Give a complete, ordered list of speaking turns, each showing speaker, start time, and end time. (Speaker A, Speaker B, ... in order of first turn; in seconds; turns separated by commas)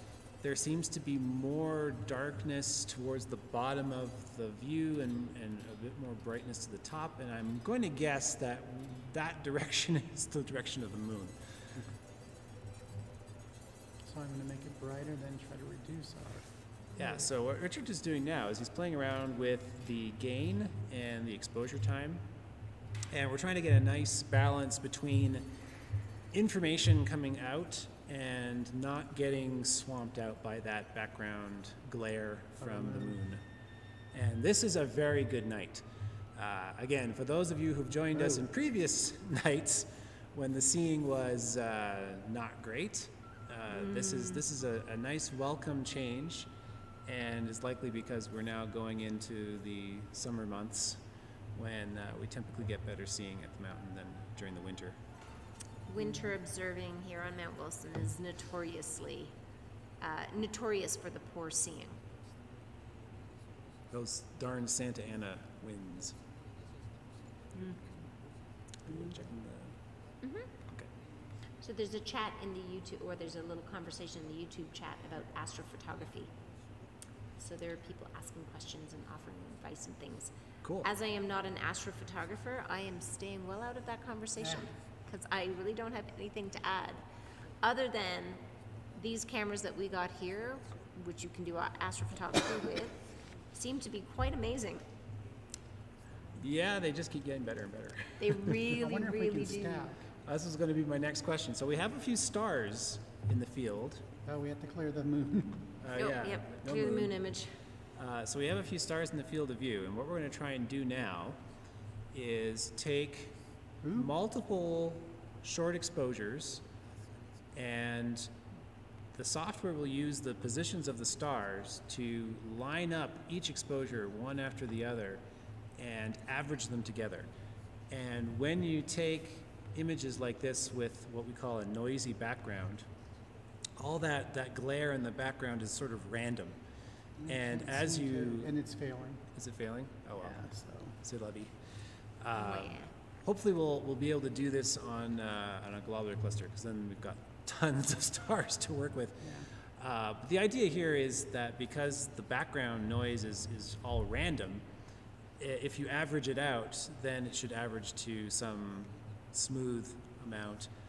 Speaker A: 0.4-11.4, Speaker B: 14.0-17.3, Speaker A: 17.0-22.2, Speaker A: 23.1-25.5, Speaker A: 26.3-33.4, Speaker B: 32.6-33.2, Speaker A: 34.1-35.8, Speaker A: 36.4-46.5, Speaker B: 38.2-38.4, Speaker C: 43.7-44.4, Speaker A: 47.1-51.0, Speaker A: 51.5-55.0, Speaker C: 55.9-59.3, Speaker C: 60.0-62.0, Speaker A: 63.9-66.2, Speaker A: 68.9-69.8, Speaker C: 70.2-70.5, Speaker C: 71.6-76.3, Speaker C: 77.4-87.0, Speaker A: 80.6-80.9, Speaker B: 84.4-84.7, Speaker C: 87.6-93.0, Speaker C: 93.5-94.9, Speaker A: 96.4-98.5, Speaker C: 98.2-99.9, Speaker B: 98.6-100.1, Speaker A: 100.2-104.1, Speaker B: 104.2-105.8, Speaker A: 105.8-107.2, Speaker C: 106.0-107.6, Speaker A: 108.0-111.4, Speaker A: 112.1-113.4, Speaker B: 113.8-114.1, Speaker A: 113.9-116.6, Speaker A: 117.5-118.3, Speaker A: 119.1-125.2, Speaker A: 125.8-127.3, Speaker A: 127.9-132.9, Speaker A: 133.8-136.6, Speaker B: 137.2-139.2, Speaker A: 137.3-138.5, Speaker A: 139.3-140.4, Speaker B: 140.2-141.0, Speaker A: 141.0-154.7, Speaker C: 142.3-142.9, Speaker B: 149.2-149.5, Speaker A: 155.4-160.7